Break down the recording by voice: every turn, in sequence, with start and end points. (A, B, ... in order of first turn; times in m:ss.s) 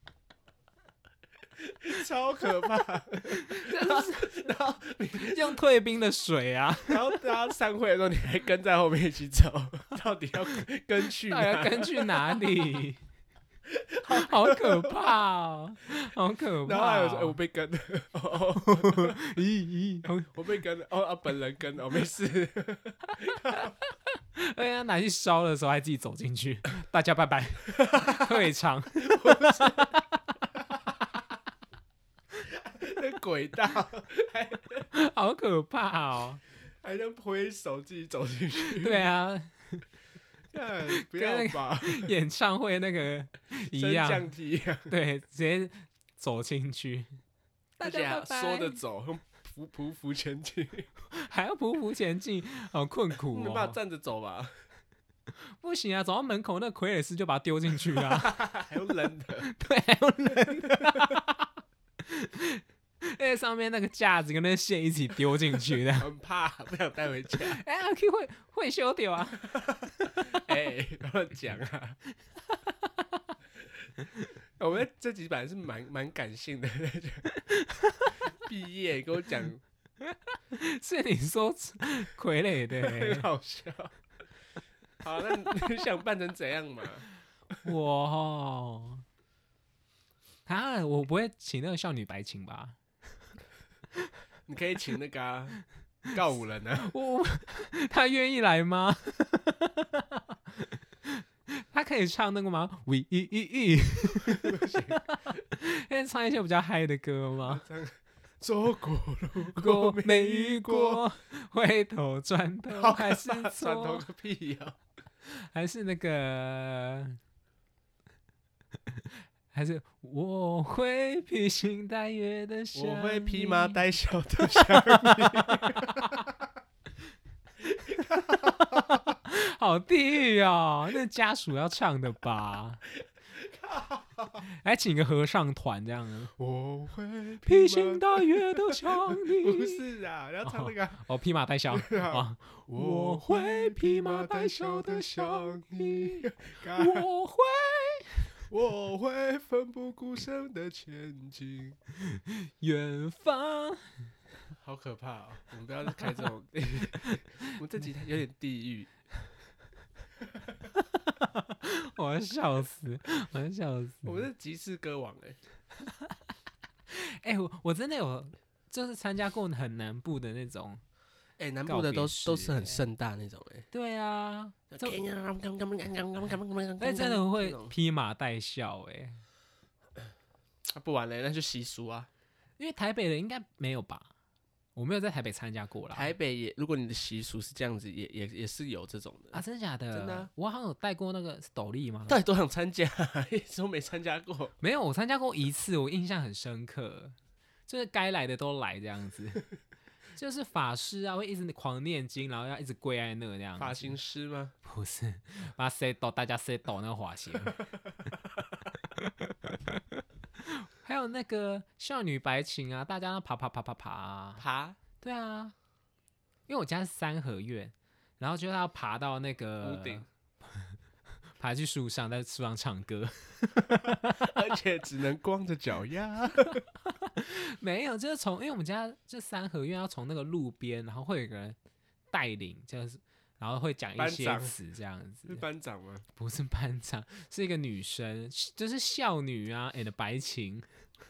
0:01.6-0:05.6 A
0:03.3-0:04.3 B
0:05.2-0:07.2 B
0:06.9-0:12.8 A
0:11.2-0:13.0 B
0:13.7-0:15.1 A
0:14.1-0:17.4 B
0:16.6-0:19.2 A
0:18.8-0:20.4 B
0:20.3-0:23.7 A
0:23.4-0:30.1 B
0:27.8-0:28.4 A
0:29.0-0:29.9 A
0:32.4-0:34.8 A
0:34.9-0:36.4 B
0:36.8-0:39.0 A
0:38.7-0:39.8 B
0:40.5-0:42.1 A
0:40.9-0:44.3 B
0:43.7-0:44.9 A
0:44.9-0:47.1 B
0:47.8-0:48.8 B
0:47.8-0:50.9 A
0:51.1-0:53.8 B
0:53.3-0:54.5 A
0:55.6-0:58.5 B
0:57.9-0:59.5 A
0:59.4-1:01.5 B
1:02.0-1:06.1 B
1:06.0-1:07.6 A
1:07.4-1:10.4 B
1:09.8-1:12.0 A
1:12.5-1:13.3 B
1:14.6-1:17.2 A
1:17.3-1:18.2 B
1:18.4-1:19.6 A
1:20.0-1:23.3 B
1:22.8-1:23.9 A
1:25.0-1:27.0 A
1:27.6-1:29.0 B
1:30.4-1:32.8 B
1:34.5-1:35.6 A
1:36.1-1:36.9 A
1:36.8-1:47.6 B
1:44.3-1:45.0 A
1:47.5-1:51.0 A
1:49.5-1:54.0 B
1:52.7-1:54.8 A
1:55.2-1:57.2 B
1:58.9-2:03.8 B
2:02.7-2:06.2 A
2:04.5-2:06.3 B
2:07.6-2:12.8 B
2:07.9-2:08.8 A
2:13.3-2:14.4 A
2:14.4-2:16.3 B
2:16.4-2:21.0 A
2:17.4-2:19.8 B
2:20.4-2:28.4 B
2:21.7-2:27.0 A
2:28.5-2:31.8 A
2:32.0-2:34.1 B
2:34.5-2:38.9 A
2:40.7-2:44.2 B
2:44.0-2:45.4 A
2:45.9-2:46.1 B
2:46.9-2:50.8 B
2:51.4-2:53.7 A
2:51.6-2:52.8 B
2:53.7-2:55.0 B
2:54.7-2:57.7 A
2:56.8-2:59.2 B
3:00.7-3:02.1 A
3:02.6-3:04.1 B
3:04.8-3:06.1 B
3:05.9-3:09.4 A
3:09.3-3:12.2 B
3:09.9-3:10.3 A
3:12.1-3:14.5 A
3:14.6-3:17.1 B
3:17.7-3:19.5 B
3:20.2-3:24.0 B
3:23.6-3:24.5 A
3:24.6-3:27.7 B
3:30.4-3:34.4 B
3:34.4-3:34.8 A
3:35.0-3:35.5 B
3:36.5-3:40.7 B
3:39.6-3:40.0 A
3:41.4-3:44.3 B
3:44.2-3:46.6 A
3:46.8-3:51.6 B
3:52.1-3:55.4 B
3:54.0-3:54.6 A
3:55.3-3:56.0 A
3:56.2-4:00.7 B